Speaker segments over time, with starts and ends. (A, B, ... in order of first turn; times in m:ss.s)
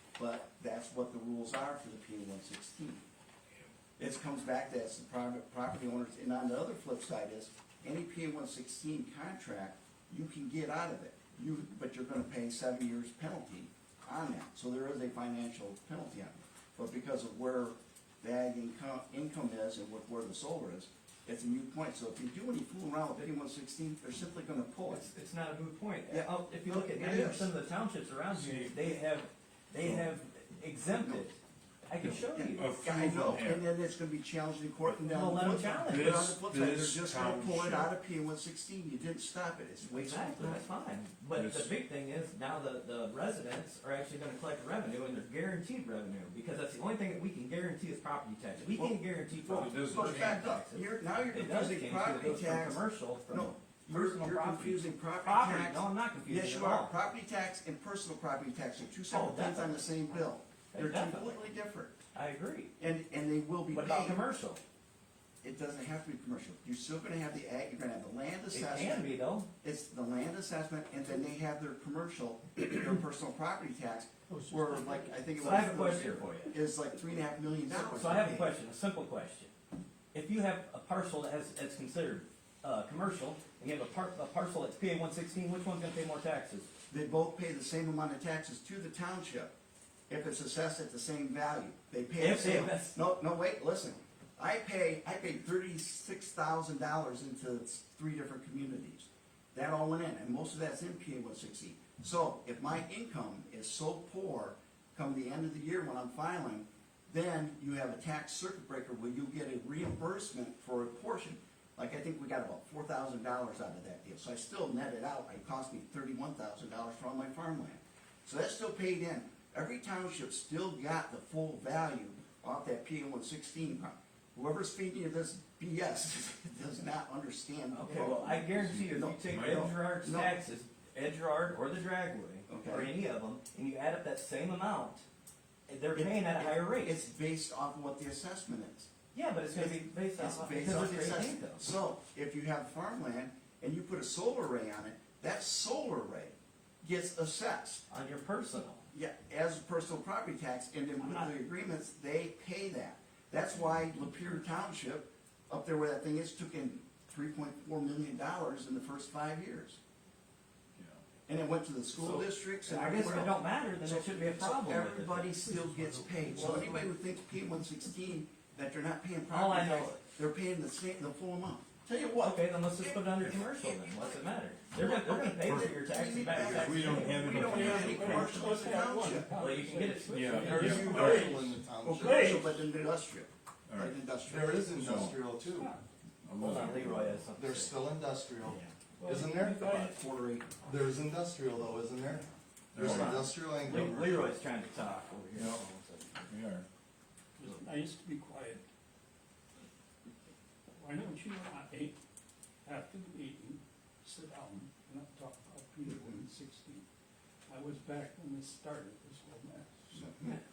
0:00.2-0:03.0 A
0:04.0-0:25.1 A
0:24.9-0:31.4 B
0:26.1-0:27.5 A
0:28.3-0:28.7 C
0:31.9-0:32.7 B
0:32.0-0:33.7 C
0:32.3-0:40.6 A
0:34.9-0:37.9 C
0:35.0-0:36.1 B
0:39.8-0:56.9 B
0:41.3-0:41.8 C
0:48.6-1:02.0 A
0:49.5-0:50.6 C
0:59.1-1:00.2 B
1:00.7-1:01.4 B
1:02.1-1:02.7 B
1:02.8-1:04.2 A
1:03.7-1:04.6 B
1:05.4-1:18.5 A
1:08.5-1:09.5 B
1:14.3-1:15.3 D
1:15.4-1:16.5 B
1:17.7-1:19.5 B
1:20.1-1:26.7 B
1:26.9-1:29.5 A
1:30.1-2:10.4 A
1:32.2-1:33.0 B
2:07.7-2:15.0 B
2:08.7-2:09.7 C
2:12.5-2:12.9 A
2:15.7-2:17.0 B
2:15.9-2:18.9 A
2:19.1-2:21.6 B
2:19.5-2:27.8 A
2:27.9-2:28.8 B
2:28.9-2:39.8 A
2:31.0-2:31.3 B
2:33.5-2:34.4 C
2:40.8-2:41.0 C
2:41.3-2:59.3 A
2:42.0-2:45.4 B
2:46.4-2:46.8 E
2:49.3-2:50.0 B
2:52.2-2:57.8 B
2:54.8-2:55.8 C
2:56.3-2:58.7 C
2:57.0-3:02.6 D
2:59.3-3:00.7 B
3:00.1-3:01.4 C
3:00.4-3:02.6 E
3:01.8-3:04.8 A
3:03.7-3:03.9 C
3:04.2-3:05.7 E
3:04.7-3:05.2 C
3:05.5-3:05.8 D
3:06.2-3:07.3 C
3:06.4-3:07.7 B
3:07.3-3:09.8 E
3:08.5-3:08.7 B
3:09.0-3:10.0 D
3:09.6-3:10.5 A
3:10.5-3:14.3 E
3:12.7-3:14.0 C
3:12.8-3:16.2 B
3:15.4-3:15.6 C
3:16.3-3:16.6 C
3:17.4-3:18.6 D
3:20.8-3:22.0 D
3:22.6-3:26.8 D
3:26.0-3:26.2 A
3:27.5-3:30.1 D
3:29.9-3:30.4 A